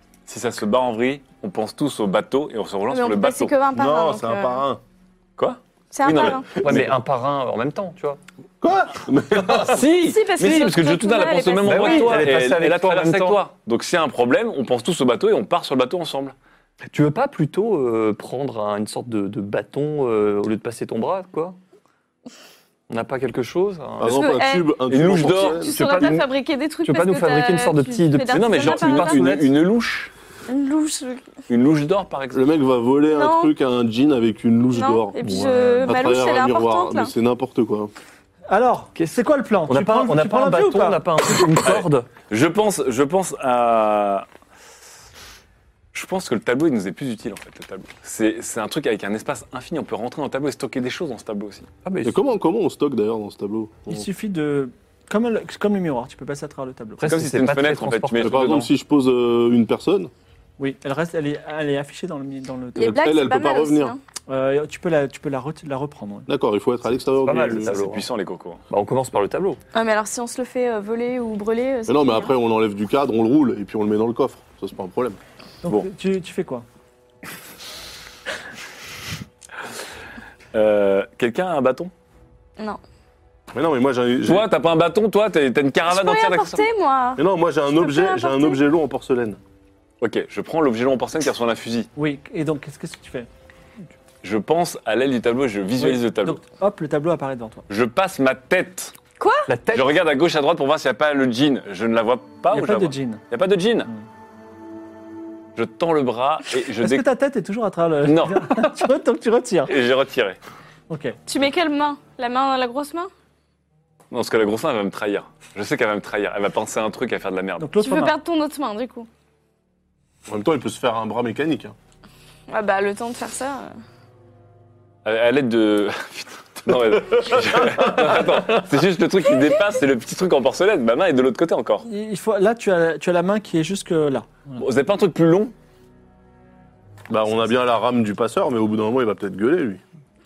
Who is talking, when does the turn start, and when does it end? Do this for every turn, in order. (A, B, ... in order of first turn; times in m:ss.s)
0:00.3-0:03.6 A
0:02.9-0:04.6 B
0:03.7-0:04.8 C
0:05.4-0:06.9 A
0:05.9-0:06.6 B
0:06.5-0:08.2 D
0:08.6-0:09.8 C
0:09.4-0:16.3 A
0:09.7-0:12.2 B
0:11.6-0:13.4 D
0:16.8-0:21.6 D
0:22.9-0:24.2 D
0:24.0-0:26.0 C
0:24.1-0:29.3 B
0:24.9-0:25.6 A
0:25.6-0:26.3 D
0:26.8-0:29.5 D
0:28.3-0:30.1 A
0:30.5-0:31.2 B
0:31.5-0:32.4 A
0:32.3-0:37.9 C
0:33.1-0:33.5 B
0:34.7-0:37.1 B
0:35.2-0:36.2 D
0:38.5-0:41.0 E
0:39.0-0:42.1 D
0:41.6-0:44.2 A
0:45.9-0:51.7 A
0:51.8-0:52.2 D
0:52.0-0:54.0 C
0:53.9-0:57.0 E
0:57.0-0:58.7 D
0:57.0-0:58.7 A
0:58.2-1:00.1 C
1:00.6-1:03.0 E
1:02.8-1:03.9 C
1:02.8-1:04.0 B
1:04.3-1:06.3 E
1:06.3-1:07.7 C
1:07.2-1:08.1 D
1:07.5-1:08.6 A
1:08.7-1:09.6 D
1:09.7-1:12.3 B
1:11.9-1:15.2 C
1:15.6-1:16.6 E
1:20.5-1:21.9 A
1:23.5-1:24.4 C
1:24.2-1:26.7 A
1:25.9-1:28.6 B
1:27.2-1:29.4 C
1:30.0-1:31.9 A
1:32.0-1:33.3 E
1:34.2-1:36.4 A
1:35.8-1:37.6 E
1:37.7-1:38.9 A
1:39.2-1:39.5 B
1:39.5-1:40.0 D
1:39.7-1:43.9 A
1:42.5-1:43.2 E
1:45.6-1:47.0 A
1:46.8-1:49.7 E
1:48.0-1:48.8 A
1:49.7-1:50.4 A
1:50.9-1:51.2 E
1:51.3-1:53.1 B
1:54.1-1:57.7 A
1:57.6-1:58.1 E
1:57.8-1:59.1 B
2:00.3-2:01.7 C
2:02.5-2:03.7 B
2:05.0-2:11.8 A
2:11.8-2:14.6 E
2:14.6-2:15.5 A
2:17.1-2:19.8 C